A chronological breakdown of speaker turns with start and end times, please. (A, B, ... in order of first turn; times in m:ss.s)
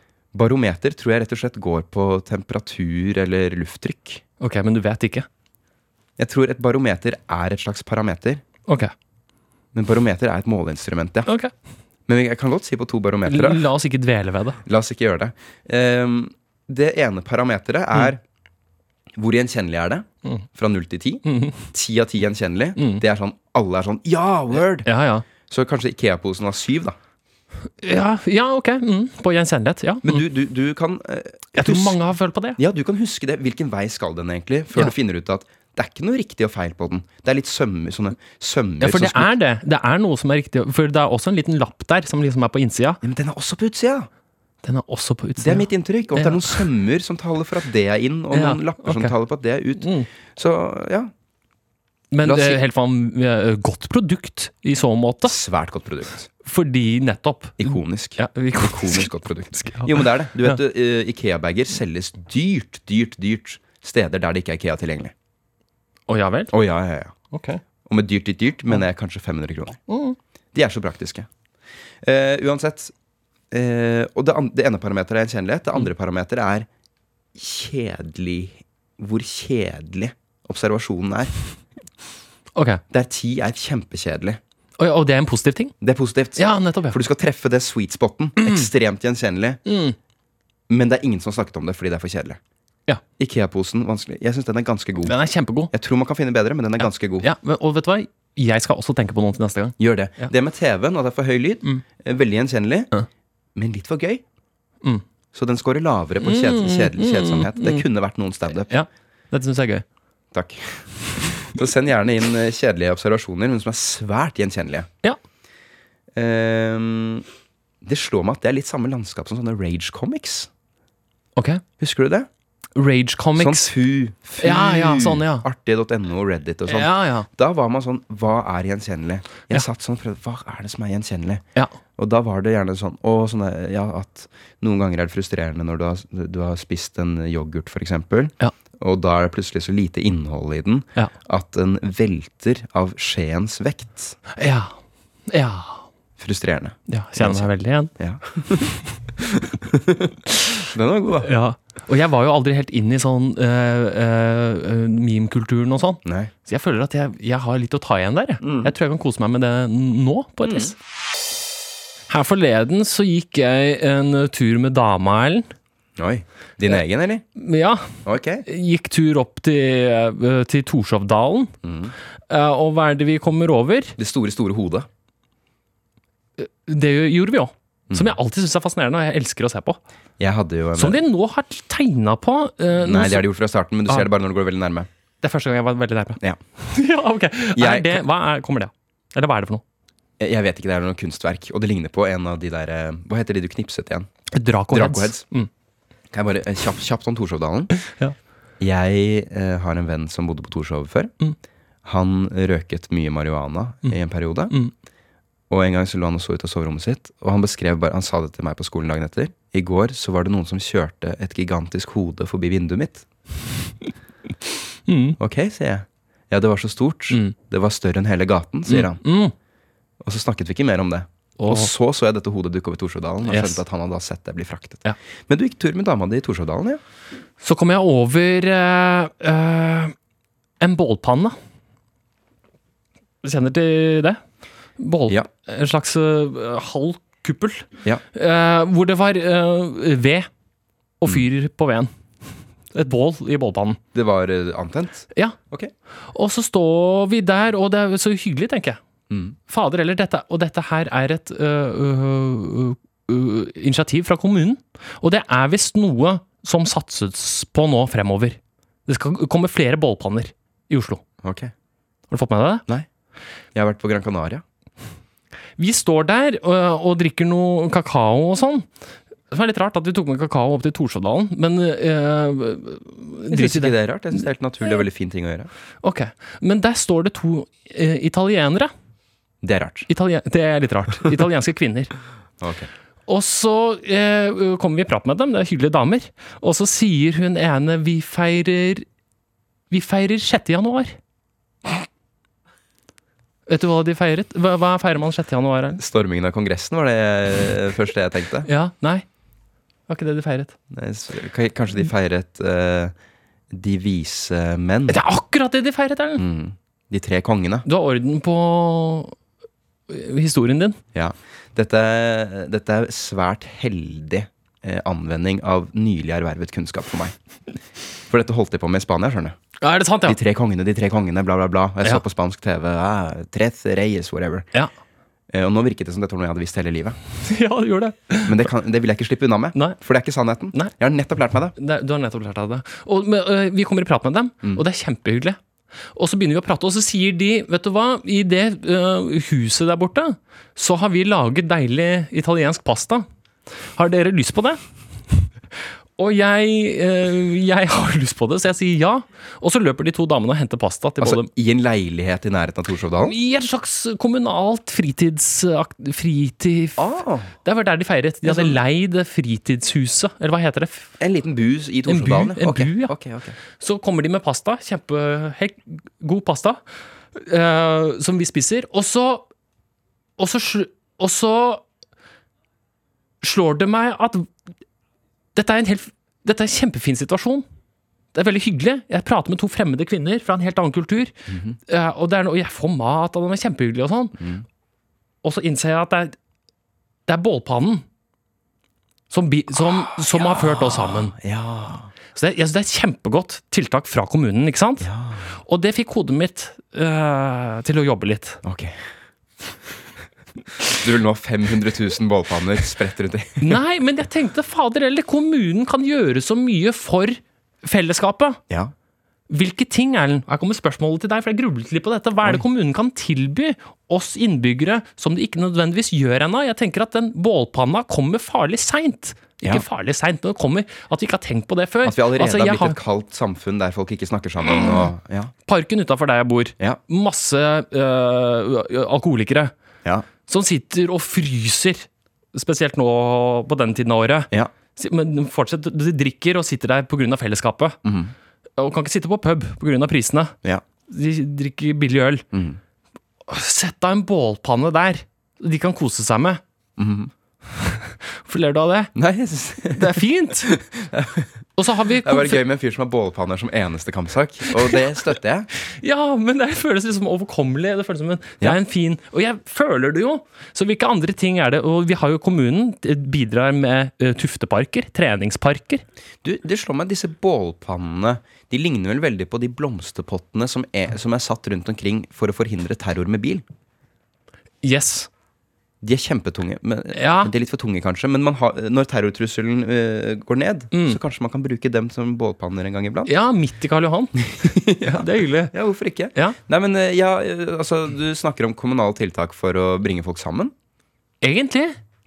0:00.3-0:04.2 A
0:04.4-0:05.3 B
0:06.2-0:08.4 A
0:08.7-0:08.9 B
0:09.7-0:11.3 A
0:12.1-0:13.6 A
0:13.3-0:14.6 B
0:14.6-0:18.2 A
0:19.2-0:24.9 A
0:21.3-0:21.6 B
0:22.8-0:23.0 B
0:24.8-0:25.2 B
0:25.4-0:27.0 A
0:27.8-0:30.2 B
0:30.0-0:32.0 A
0:31.5-0:32.6 B
0:32.6-0:39.3 A
0:38.8-0:43.0 B
0:43.0-0:44.1 A
0:44.6-0:46.6 B
0:45.4-0:51.1 A
0:48.3-0:49.1 B
0:49.8-0:50.1 B
0:52.1-0:55.4 B
0:52.2-0:52.6 A
0:55.2-0:56.3 A
0:56.4-1:00.6 B
0:57.6-1:05.1 A
1:06.1-1:06.5 B
1:06.5-1:07.1 A
1:07.3-1:07.6 B
1:07.9-1:09.8 A
1:09.9-1:10.2 B
1:10.5-1:11.3 A
1:12.0-1:12.9 A
1:13.5-1:16.7 A
1:17.4-1:21.3 A
1:22.6-1:22.8 B
1:22.9-1:24.4 A
1:24.8-1:25.7 B
1:25.8-1:29.6 A
1:26.4-1:27.0 B
1:28.4-1:28.7 B
1:29.7-1:30.0 B
1:30.7-1:32.4 A
1:33.2-1:35.2 A
1:35.0-1:35.7 B
1:35.7-1:37.3 A
1:36.8-1:40.3 B
1:39.8-1:42.9 A
1:43.6-1:44.2 A
1:45.3-1:48.7 A
1:46.2-1:47.8 B
1:48.7-1:49.8 B
1:50.3-1:54.9 A
1:56.1-1:57.2 A
1:57.8-2:00.5 A
2:01.4-2:01.6 B
2:01.8-2:02.3 A
2:02.8-2:03.7 B
2:03.4-2:11.4 A
2:04.4-2:05.5 B
2:06.7-2:07.3 B
2:12.0-2:24.2 A
2:24.4-2:24.7 B
2:25.3-2:25.8 B
2:26.2-2:27.5 A
2:26.9-2:27.9 B
2:28.0-2:30.2 A
2:30.7-2:31.3 A
2:31.2-2:40.8 B
2:36.0-2:36.3 A
2:38.4-2:38.7 A
2:40.4-2:40.7 A
2:42.1-2:45.5 B
2:46.0-2:47.2 A
2:47.4-2:51.5 B
2:48.0-2:48.4 A
2:51.6-2:51.9 A
2:52.3-2:54.0 B
2:54.0-2:54.9 A
2:56.4-2:59.8 B
2:57.9-2:58.2 A
3:00.2-3:01.0 A
3:00.8-3:03.2 B
3:02.8-3:04.9 A
3:05.2-3:09.6 B
3:07.6-3:08.0 A
3:10.2-3:14.1 A
3:14.3-3:15.5 B
3:14.7-3:15.2 A
3:16.1-3:17.7 A
3:17.8-3:18.2 B
3:18.6-3:21.1 A
3:21.8-3:24.5 A
3:25.5-3:33.1 A
3:34.9-3:35.2 B
3:35.2-3:39.0 A
3:37.1-3:37.4 B
3:38.7-3:39.3 B
3:40.0-3:46.8 A
3:41.4-3:41.7 B
3:43.3-3:43.6 B
3:47.4-3:49.9 B
3:50.6-3:51.4 B
3:53.2-3:54.2 B
3:54.8-4:00.3 B
4:01.0-4:01.9 B
4:02.7-4:03.8 B
4:03.9-4:05.7 A
4:06.1-4:08.8 B
4:09.1-4:09.4 A
4:09.5-4:21.0 B
4:21.2-4:21.5 A
4:22.1-4:22.6 B
4:23.5-4:24.4 A
4:25.6-4:28.7 B
4:29.3-4:33.7 B
4:33.3-4:35.5 A
4:35.8-4:38.7 B
4:39.4-4:39.9 A
4:39.9-4:41.9 B
4:42.4-4:42.7 A
4:43.1-4:48.8 B
4:49.7-4:51.0 B
4:53.5-4:55.8 B
4:55.8-4:58.5 A
4:58.5-4:59.0 B
4:59.9-5:00.5 B
5:00.7-5:02.9 A
5:03.5-5:05.0 A
5:04.9-5:06.2 B
5:06.2-5:07.7 A
5:07.7-5:09.2 B
5:09.9-5:10.8 B
5:10.9-5:17.2 A
5:18.1-5:19.4 A
5:19.6-5:20.2 B
5:20.0-5:24.5 A
5:25.3-5:27.0 A
5:27.2-5:28.5 B
5:28.2-5:31.6 A
5:31.6-5:35.4 B
5:36.0-5:43.1 B
5:43.8-5:44.6 B
5:46.0-5:51.3 B
5:51.0-5:53.2 A
5:53.0-5:56.8 B
5:56.8-5:57.3 A
5:57.4-6:00.9 B
5:58.2-5:58.6 A
6:01.0-6:03.4 A
6:01.9-6:02.9 B
6:03.5-6:06.6 B
6:07.2-6:09.3 B
6:10.2-6:11.6 B
6:13.2-6:14.3 B
6:15.4-6:17.4 B
6:18.1-6:21.1 B
6:21.3-6:21.6 A
6:21.7-6:24.2 B
6:24.2-6:24.4 A
6:25.2-6:26.2 B
6:27.1-6:27.8 B
6:29.1-6:31.1 B
6:29.6-6:31.9 A
6:32.2-6:34.9 B
6:34.8-6:35.3 A
6:35.5-6:38.4 B
6:38.4-6:38.8 A
6:40.7-6:43.6 A
6:43.4-6:48.4 B
6:49.3-7:02.8 B
7:01.8-7:05.3 A
7:05.5-7:09.5 B
7:10.3-7:17.8 B
7:17.8-7:18.1 A
7:18.6-7:20.3 B
7:20.9-7:22.2 B
7:22.3-7:22.6 A
7:23.3-7:26.4 B
7:26.8-7:27.1 A
7:27.6-7:28.9 B
7:29.0-7:31.3 A
7:29.7-7:30.6 B
7:31.6-7:32.4 B
7:32.0-7:35.5 A
7:35.7-7:45.8 B
7:46.2-7:53.4 A
7:54.6-7:55.1 B
7:55.8-8:03.1 A
7:56.9-7:57.3 B
8:00.7-8:01.0 B
8:03.1-8:04.2 B
8:04.2-8:10.5 A
8:04.8-8:05.5 B
8:11.2-8:11.8 B